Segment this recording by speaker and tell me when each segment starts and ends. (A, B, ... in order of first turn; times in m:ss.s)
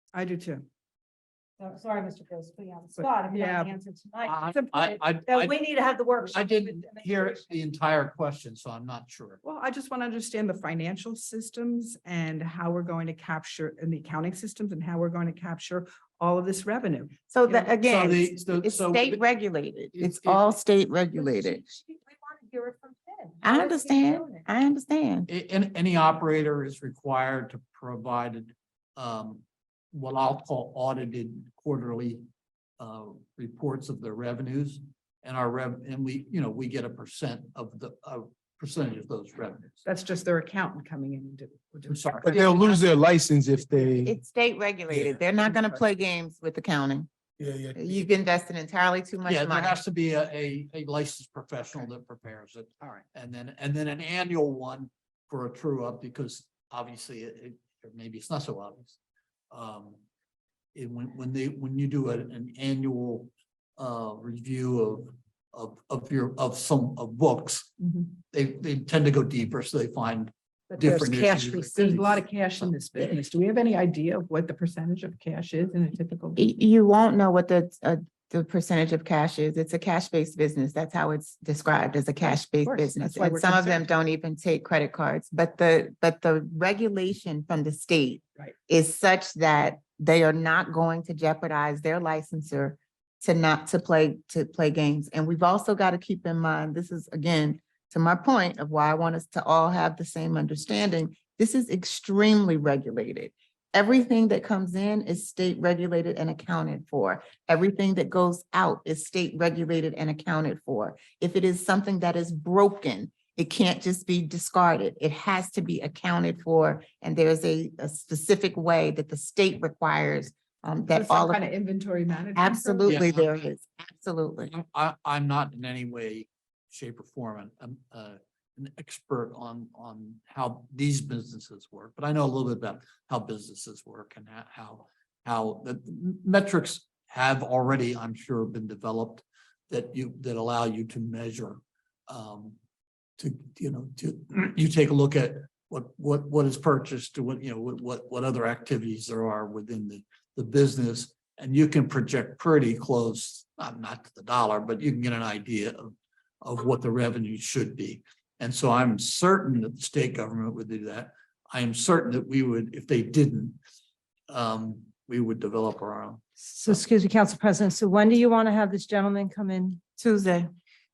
0:00.1-0:00.7 A
0:01.6-0:07.6 B
0:03.0-0:03.7 A
0:04.2-0:05.6 C
0:04.5-0:04.8 A
0:06.3-0:09.4 C
0:09.4-0:17.8 A
0:17.3-0:21.6 D
0:17.9-0:19.2 C
0:19.9-0:20.5 C
0:21.1-0:24.5 B
0:23.4-0:25.3 D
0:25.3-0:32.2 C
0:32.8-0:39.8 C
0:39.9-0:43.0 A
0:41.9-0:42.6 C
0:42.3-0:44.2 E
0:43.6-0:44.0 A
0:44.0-0:47.1 D
0:44.9-0:45.2 E
0:45.5-0:45.8 A
0:47.4-0:47.9 E
0:47.7-0:49.8 D
0:49.3-0:59.0 C
0:59.5-1:00.0 C
1:00.8-1:07.8 C
1:07.8-1:08.1 A
1:08.3-1:13.2 C
1:10.7-1:12.0 B
1:11.6-1:16.4 A
1:16.4-2:01.5 D
1:22.2-1:23.8 A
2:00.9-2:03.0 A
2:02.4-2:04.5 D
2:02.8-2:03.5 C
2:04.5-2:22.6 C
2:23.2-2:43.6 C
2:44.3-2:46.8 C
2:46.4-2:49.8 B
2:50.0-2:50.5 D